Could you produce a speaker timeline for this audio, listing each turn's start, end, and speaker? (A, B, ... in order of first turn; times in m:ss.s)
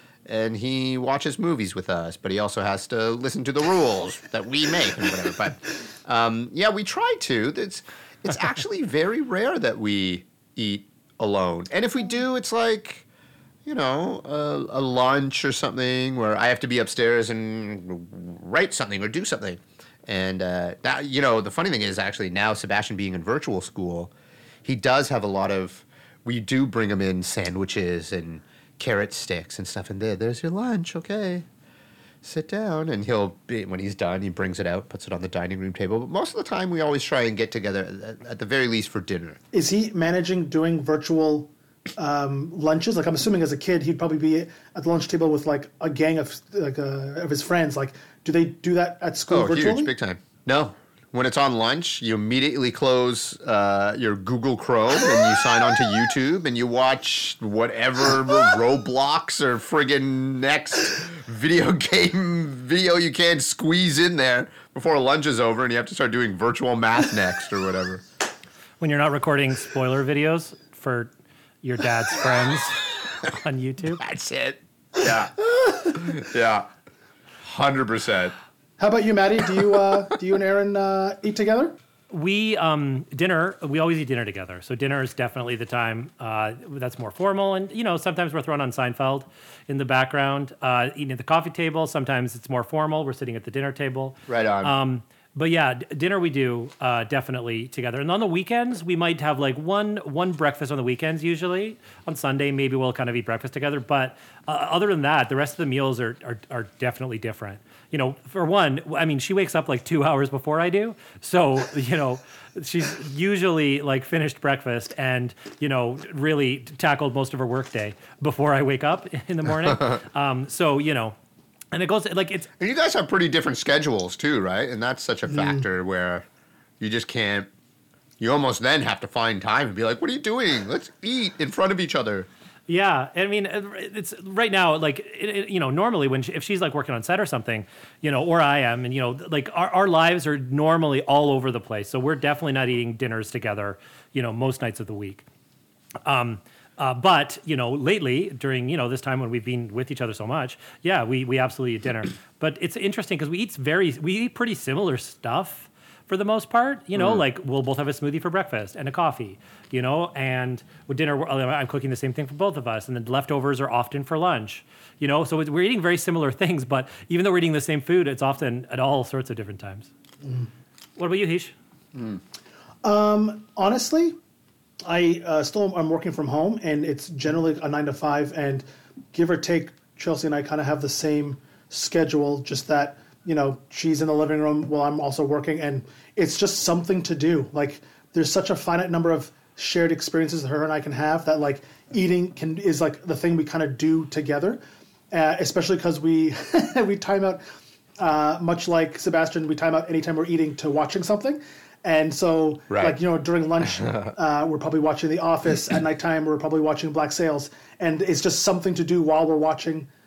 0:00.3-0:13.0 A
0:13.6-0:24.1 A
0:24.6-0:31.4 A
0:32.2-0:39.4 A
0:39.5-0:49.9 B
0:49.3-1:08.0 A
1:08.8-1:11.1 C
1:11.6-1:14.0 C
1:14.0-1:16.7 A
1:17.4-1:18.3 A
1:18.8-1:21.8 B
1:22.1-2:01.2 C
1:34.3-1:34.7 A
1:59.7-1:59.9 A
2:01.7-2:02.5 C
2:02.6-2:06.2 A
2:05.3-2:05.6 B
2:06.8-2:07.5 A
2:08.2-2:12.3 A
2:12.7-2:25.2 C
2:26.0-2:49.9 C
2:36.9-2:37.2 A
2:50.2-2:50.5 B
2:51.0-2:51.5 C
2:51.9-2:52.2 A
2:52.8-2:54.2 B
2:54.8-3:17.4 B
3:18.0-3:29.9 B
3:22.7-3:23.0 A
3:23.6-3:24.1 A